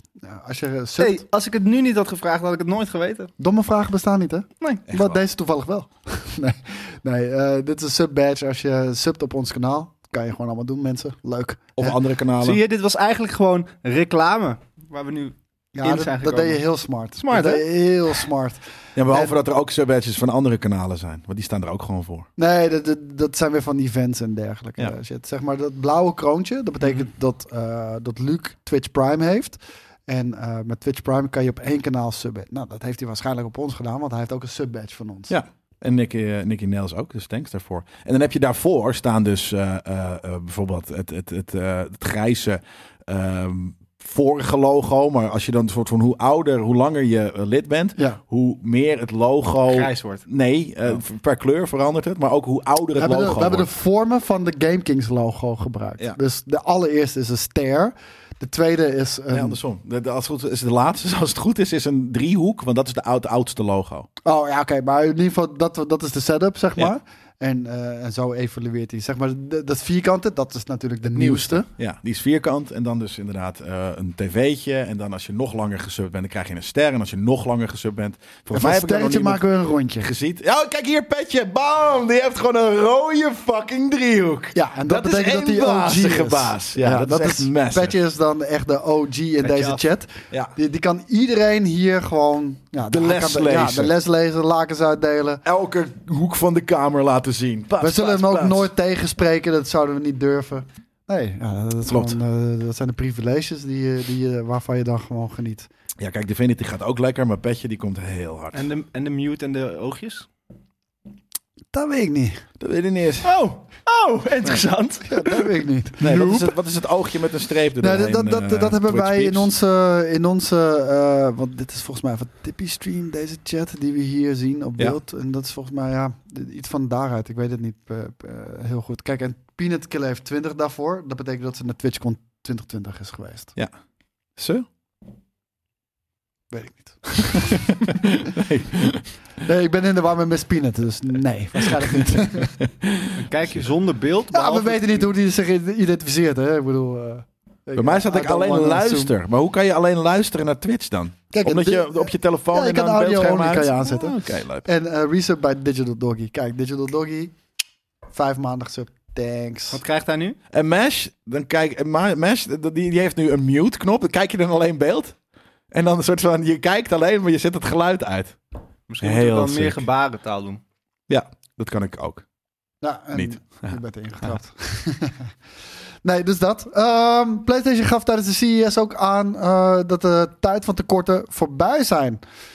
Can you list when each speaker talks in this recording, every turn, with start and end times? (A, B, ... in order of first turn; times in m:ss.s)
0:00.2-0:01.2 A
0:01.0-0:03.3 B
0:03.4-0:12.0 A
0:04.9-0:05.2 C
0:11.8-0:12.6 C
0:12.4-0:16.6 B
0:15.7-0:19.4 A
0:17.2-0:17.6 B
0:19.0-0:22.3 C
0:22.4-0:35.3 A
0:35.3-0:53.7 C
0:49.7-0:50.2 B
0:53.0-0:59.6 A
0:59.3-1:04.1 C
1:04.2-1:11.7 A
1:11.1-1:19.5 C
1:18.5-1:20.1 A
1:20.0-1:28.0 C
1:24.5-1:35.4 A
1:29.4-1:29.8 B
1:32.9-1:33.9 C
1:35.4-1:38.7 C
1:37.8-1:45.7 A
1:41.8-1:42.2 C
1:46.0-1:48.7 C
1:48.5-1:50.3 B
1:51.7-1:52.4 A
1:52.6-1:53.3 C
1:53.2-1:55.5 B
1:55.0-1:56.5 A
1:56.0-1:59.5 C
1:57.8-2:13.5 A
2:14.4-2:14.7 C
2:16.5-2:17.8 A
2:17.4-2:19.1 C
2:19.4-2:22.6 A
2:21.6-2:23.1 C
2:23.2-2:25.1 B
2:24.3-2:29.1 A
2:27.8-2:34.6 C
2:31.3-2:37.3 A
2:38.1-2:39.8 A
2:39.7-2:40.4 B
2:40.5-2:45.2 C
2:45.7-2:48.4 C
2:48.9-2:50.6 B
2:49.0-2:49.8 C
2:51.1-2:52.2 C
2:52.8-2:55.3 A
2:53.1-2:53.7 C
2:56.0-3:02.2 A